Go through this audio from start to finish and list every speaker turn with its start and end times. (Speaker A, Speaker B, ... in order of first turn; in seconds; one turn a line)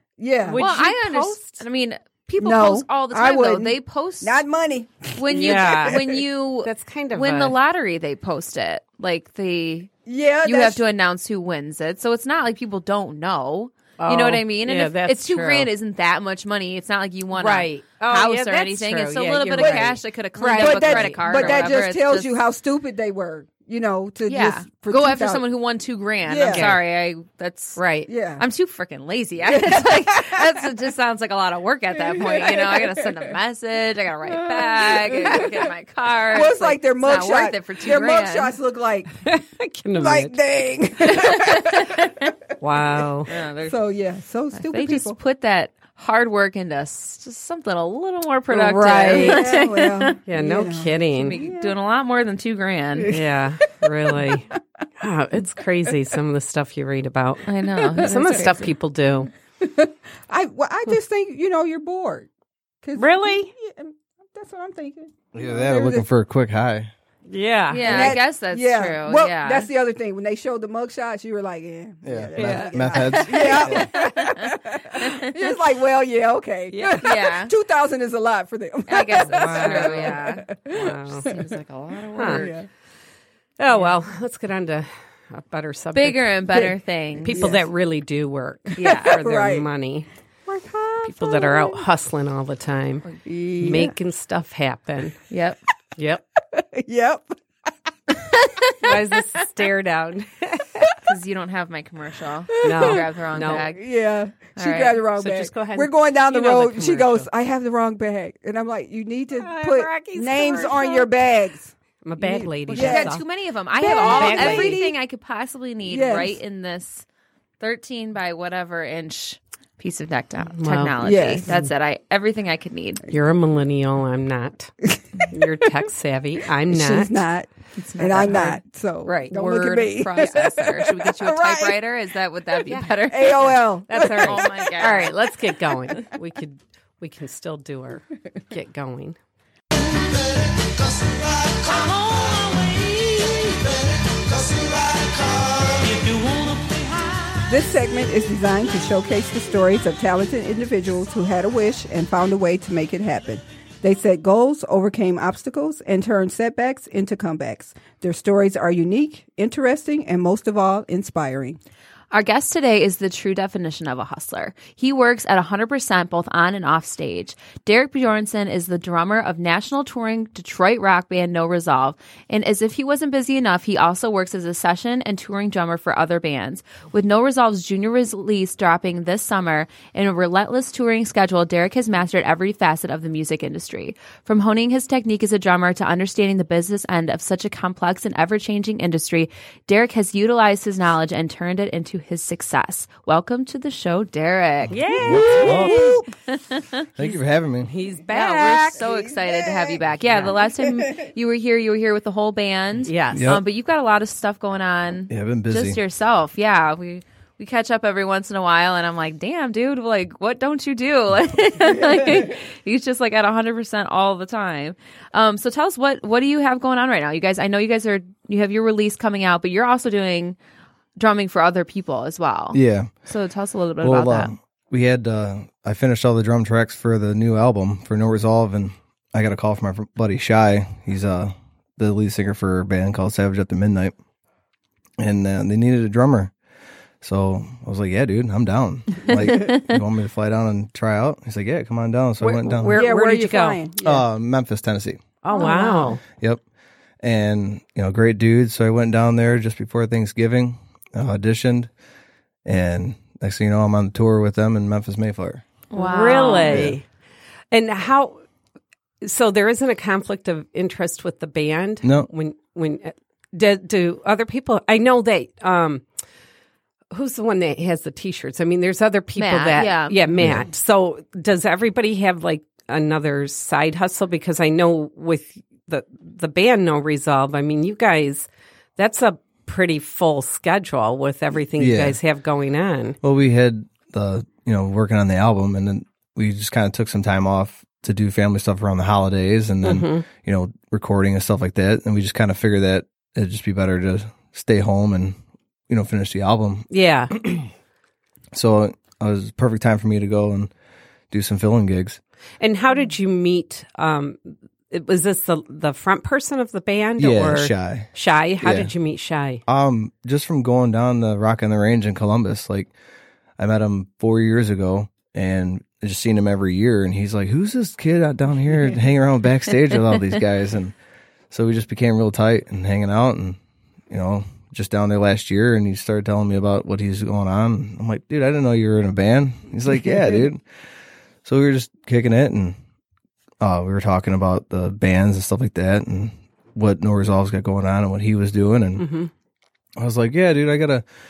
Speaker A: 0.2-0.6
Speaker B: 0.4-1.6
Speaker C: 0.5-4.4
Speaker A: 2.4-6.2
Speaker C: 5.2-22.4
Speaker B: 5.3-6.0
Speaker B: 6.6-7.5
Speaker A: 10.1-10.8
Speaker B: 14.0-15.7
Speaker B: 17.3-21.8
Speaker A: 19.6-19.9
Speaker A: 20.4-25.4
Speaker C: 24.3-27.8
Speaker A: 26.2-26.7
Speaker B: 26.4-26.8
Speaker B: 27.8-28.1
Speaker A: 28.1-28.4
Speaker C: 28.4-38.5
Speaker A: 29.4-30.5
Speaker A: 32.0-33.3
Speaker A: 34.3-35.7
Speaker A: 36.3-39.1
Speaker B: 39.2-40.4
Speaker A: 39.9-42.1
Speaker C: 41.1-42.0
Speaker B: 42.6-43.3
Speaker C: 43.3-43.8
Speaker A: 43.7-45.2
Speaker C: 44.5-50.1
Speaker B: 48.5-49.6
Speaker A: 49.1-51.8
Speaker B: 50.2-51.4
Speaker C: 51.1-53.2
Speaker B: 53.1-59.3
Speaker A: 53.9-54.2
Speaker C: 57.5-58.6
Speaker A: 57.8-58.4
Speaker A: 59.6-62.3
Speaker A: 62.8-66.0
Speaker B: 63.0-63.5
Speaker D: 65.3-66.9
Speaker B: 67.3-68.1
Speaker C: 67.7-69.7
Speaker A: 67.8-81.3
Speaker D: 72.0-73.9
Speaker B: 72.3-74.3
Speaker C: 75.0-75.5
Speaker B: 76.7-77.1
Speaker C: 77.0-77.5
Speaker C: 78.9-80.5
Speaker B: 79.3-81.3
Speaker C: 81.2-82.6
Speaker B: 82.1-82.5
Speaker A: 82.2-82.7
Speaker B: 83.6-86.6
Speaker C: 85.9-87.5
Speaker B: 87.2-90.1
Speaker A: 87.3-87.6
Speaker A: 88.7-89.7
Speaker C: 88.8-89.2
Speaker A: 90.5-91.8
Speaker B: 91.0-95.2
Speaker A: 93.2-93.9
Speaker C: 95.3-95.6
Speaker B: 96.0-96.2
Speaker A: 96.5-97.3
Speaker B: 98.8-100.9
Speaker C: 101.0-103.8
Speaker B: 102.6-103.7
Speaker A: 102.6-113.2
Speaker C: 104.5-105.0
Speaker B: 105.2-107.3
Speaker B: 109.3-111.1
Speaker B: 112.0-113.2
Speaker C: 112.7-117.0
Speaker A: 113.8-115.0
Speaker B: 113.8-114.8
Speaker A: 115.8-116.3
Speaker C: 117.6-123.0
Speaker B: 120.5-121.7
Speaker A: 121.0-121.5
Speaker B: 123.1-124.7
Speaker A: 124.9-125.4
Speaker B: 125.3-127.2
Speaker A: 126.7-131.8
Speaker C: 127.8-128.6
Speaker B: 128.2-129.3
Speaker C: 129.1-135.2
Speaker B: 132.7-139.2
Speaker A: 133.1-134.7
Speaker E: 139.9-147.2
Speaker A: 147.5-161.6
Speaker C: 162.1-194.7
Speaker B: 194.7-196.0
Speaker A: 194.9-196.0
Speaker D: 195.0-196.0
Speaker C: 196.3-196.7
Speaker D: 196.9-197.7
Speaker B: 197.6-198.8
Speaker C: 198.1-220.4
Speaker A: 198.8-199.8
Speaker A: 200.4-201.1
Speaker B: 202.8-203.3
Speaker D: 203.1-203.4
Speaker D: 205.1-205.8
Speaker C: 221.0-224.3
Speaker D: 222.5-222.9
Speaker D: 223.8-233.9
Speaker D: 235.0-236.3
Speaker D: 237.0-242.8
Speaker B: 242.2-243.6
Speaker A: 242.7-244.0
Speaker D: 243.8-245.0
Speaker B: 245.2-246.0
Speaker C: 245.3-245.9
Speaker D: 247.0-251.7
Speaker D: 252.4-255.4
Speaker C: 255.7-256.7
Speaker B: 255.7-256.9
Speaker D: 256.5-256.7
Speaker B: 257.5-258.2
Speaker B: 259.0-265.8
Speaker D: 261.8-262.1
Speaker B: 266.9-283.0
Speaker C: 269.1-270.0
Speaker D: 270.2-270.4
Speaker D: 281.6-282.0
Speaker D: 283.0-295.2
Speaker B: 289.6-290.1
Speaker D: 295.7-297.5
Speaker B: 296.7-297.1
Speaker D: 298.3-300.5
Speaker D: 301.1-302.0
Speaker B: 302.4-309.4
Speaker D: 307.0-307.9
Speaker D: 308.4-308.7
Speaker D: 309.5-312.7
Speaker D: 313.4-320.7
Speaker D: 321.3-323.4
Speaker D: 323.9-330.4
Speaker D: 331.2-332.6
Speaker D: 333.4-338.9
Speaker B: 338.8-339.1
Speaker D: 339.8-340.8